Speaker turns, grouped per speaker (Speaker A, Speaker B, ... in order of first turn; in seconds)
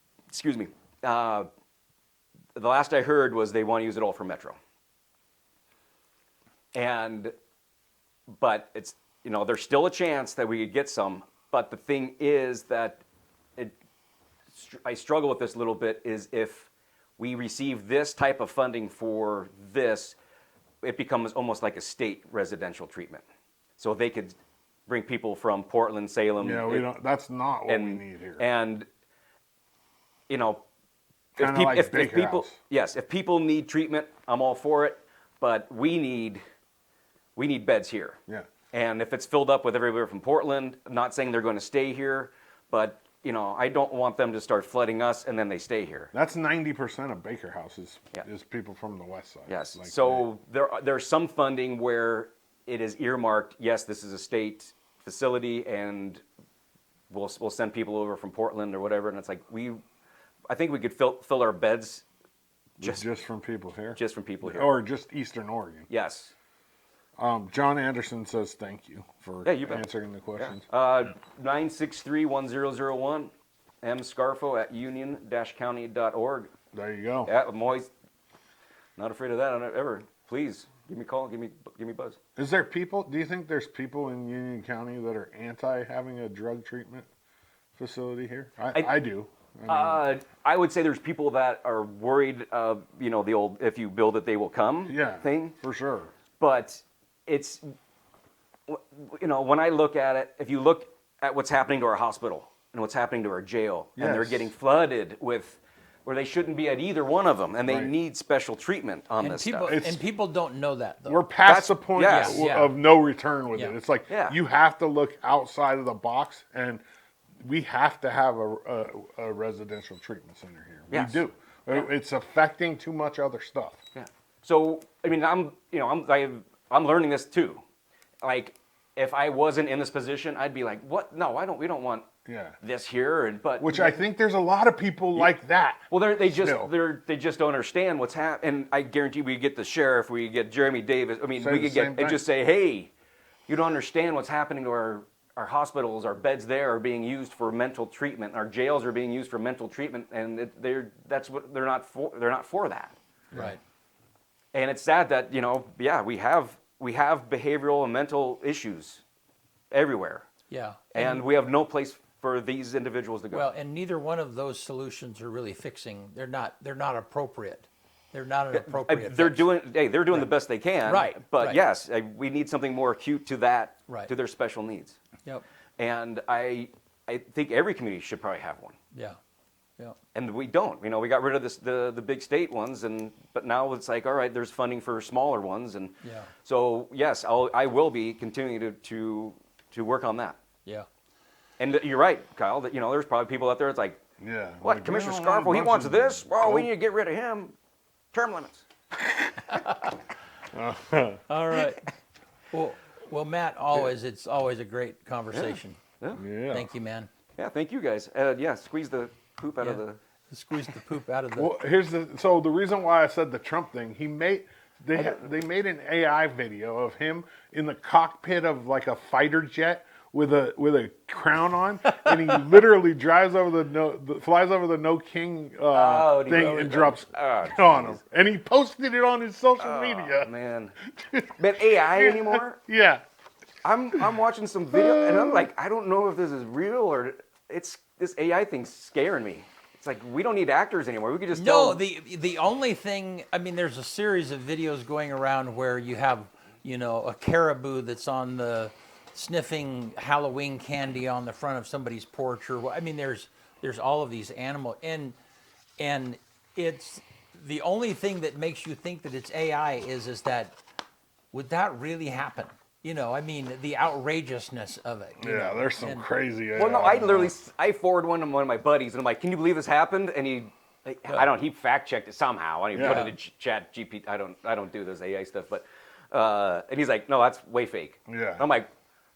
Speaker A: 0.3-1.5, 2.5-4.6, 6.7-7.3, 8.4-13.0, 14.5-20.1, 20.8-23.2, 23.8-26.9, 27.7-28.9, 30.3-30.6, 31.4-36.4, 37.4-38.2, 38.7-46.1, 49.5-56.2, 57.1-59.8, 60.5-62.0, 62.8-63.0, 63.9-64.7, 65.9-66.3, 69.4-69.8, 70.4-73.3, 73.8-76.5, 77.2-77.9, 79.0-82.2, 89.7-95.5, 96.4-97.6, 98.7-109.8, 111.4-112.4, 114.1-114.4, 120.9-121.2, 123.9-127.6, 128.2-132.1, 132.6-134.0, 135.9-142.9, 143.5-152.9, 154.5-159.0, 159.7-160.3, 160.9-163.5, 168.5-175.0, 175.8-178.8, 180.1-190.4, 191.6-194.0, 194.6-197.5, 198.1-198.7, 205.3-206.2, 207.4-210.0, 225.7-228.0, 229.6-230.7, 231.4-232.6, 233.6-241.8, 266.5-278.7
Speaker B: 26.4-28.4, 31.4-32.6, 46.1-50.2, 62.8-65.9, 67.2-70.6, 76.7-77.3, 82.4-87.1, 87.8-90.0, 94.9-96.1, 104.0-104.5, 107.7-107.9, 109.6-110.0, 111.1-116.8, 117.4-123.8, 132.2-132.6, 133.6-136.7, 141.4-142.2, 194.2-196.7, 200.5-201.2, 206.1-206.7, 211.3-230.3, 231.0-233.0, 234.7-235.4, 265.2-267.3, 272.7-273.1, 278.1-278.4
Speaker C: 109.2-111.2, 112.0-112.8, 153.3-153.6, 160.5-161.2, 163.3-169.5, 170.8-171.6, 178.9-179.2, 186.0-186.3, 201.3-201.9, 202.5-205.8, 206.5-207.1, 209.6-211.5, 241.3-255.2, 255.8-260.6, 261.3-266.1, 272.8-273.1